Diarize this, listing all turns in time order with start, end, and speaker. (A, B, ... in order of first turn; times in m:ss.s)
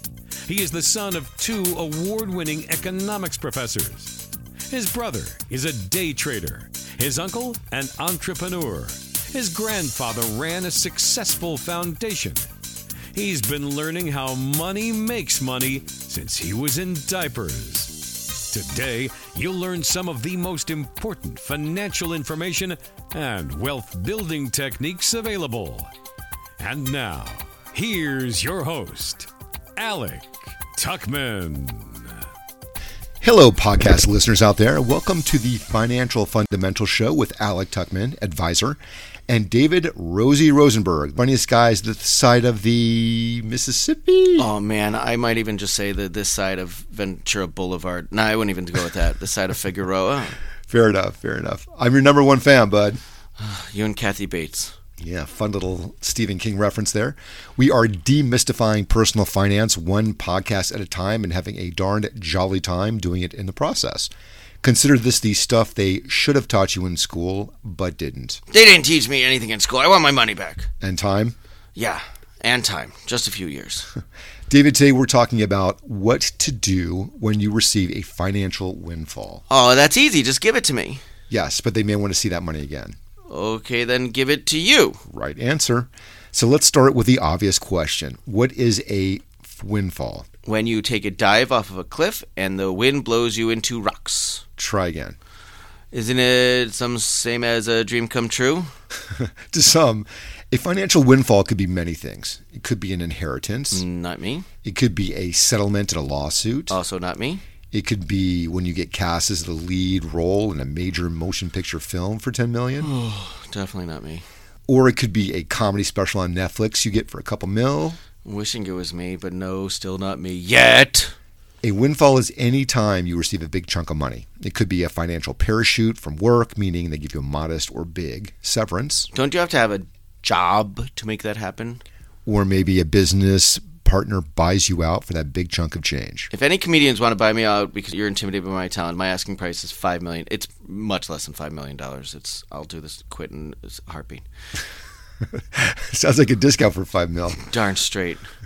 0:00.5-0:04.2 A
0:04.7-0:12.4 A
0:13.1-0:25.9 A
0:26.6-0:32.1 A
0:33.2-0:44.5 B
0:44.4-0:50.4 C
0:50.7-0:53.0 B
0:53.4-0:54.7 C
0:55.0-1:04.1 B
1:04.6-1:08.4 B
1:08.5-1:10.7 C
1:10.8-1:11.4 B
1:11.8-1:13.9 C
1:14.5-1:19.4 B
1:19.5-1:21.0 C
1:21.3-1:23.0 B
1:23.3-1:25.0 C
1:25.1-1:30.3 B
1:30.5-1:34.4 C
1:34.6-1:35.2 B
1:35.9-1:38.7 C
1:39.1-1:43.8 B
1:43.7-1:44.5 C
1:44.6-1:46.8 B
1:46.7-1:47.4 C
1:47.7-1:52.9 B
1:52.8-1:54.2 C
1:54.7-1:58.0 B
1:58.2-2:01.1 C
2:01.6-2:09.1 B
2:09.1-2:11.8 C
2:12.3-2:16.3 B
2:16.3-2:24.2 C
2:25.3-2:27.5 B
2:27.4-2:28.2 C